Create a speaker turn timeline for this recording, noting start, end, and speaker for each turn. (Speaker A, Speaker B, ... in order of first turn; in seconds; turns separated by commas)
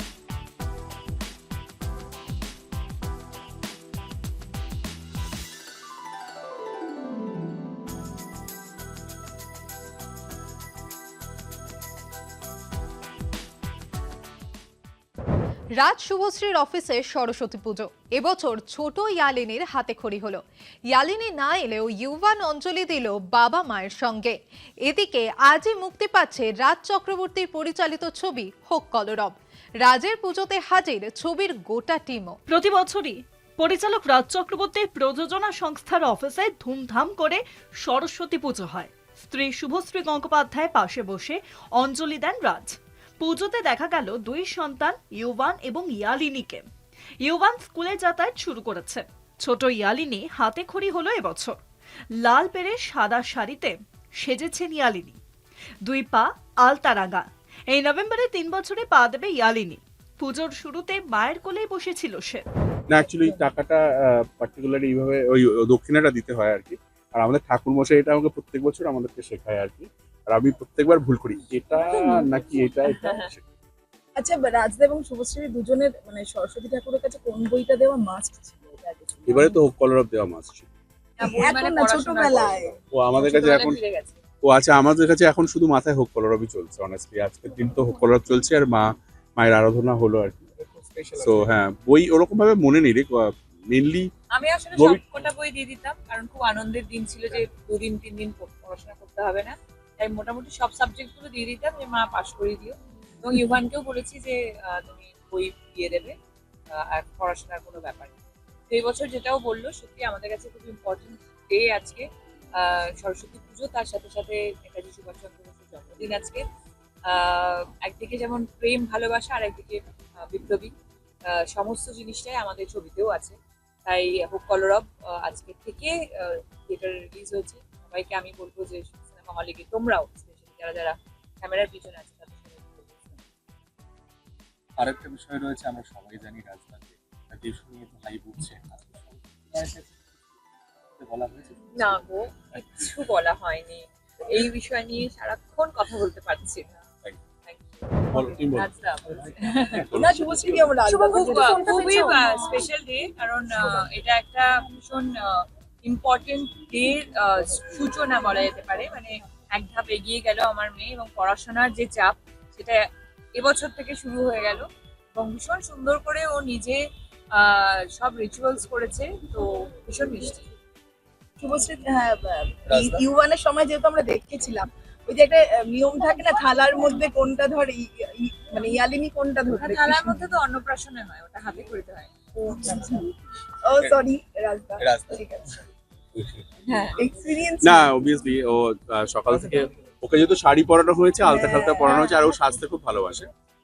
Speaker A: 15.8-20.4, Speaker A: 20.9-24.3, Speaker A: 24.9-32.4, Speaker B: 32.5-46.6, Speaker B: 47.2-51.6, Speaker B: 52.2-55.2, Speaker B: 55.8-62.4, Speaker C: 62.9-73.4, Speaker D: 74.2-79.6, Speaker C: 79.3-80.7, Speaker E: 81.2-84.2, Speaker D: 81.2-82.8, Speaker C: 82.9-83.8, Speaker C: 84.4-90.5, Speaker C: 91.1-94.1, Speaker E: 94.3-106.1, Speaker C: 94.7-95.0, Speaker E: 106.7-108.1, Speaker E: 108.7-112.0, Speaker E: 112.6-116.4, Speaker E: 117.1-120.7, Speaker E: 121.3-133.2, Speaker F: 134.8-136.8, Speaker F: 137.3-139.9, Speaker F: 141.0-142.0, Speaker E: 141.7-146.8, Speaker F: 142.6-142.9, Speaker E: 147.4-149.9, Speaker C: 148.1-148.7, Speaker C: 149.7-150.7, Speaker D: 149.9-152.6, Speaker E: 150.8-155.2, Speaker E: 155.8-162.8, Speaker E: 163.3-164.6, Speaker E: 165.2-166.8, Speaker E: 167.3-170.5, Speaker D: 171.4-180.2, Speaker E: 179.5-182.1, Speaker D: 182.3-183.1, Speaker D: 183.7-185.4, Speaker F: 184.8-185.2, Speaker E: 186.7-187.0, Speaker D: 187.0-187.9, Speaker C: 187.6-193.3, Speaker D: 191.2-192.2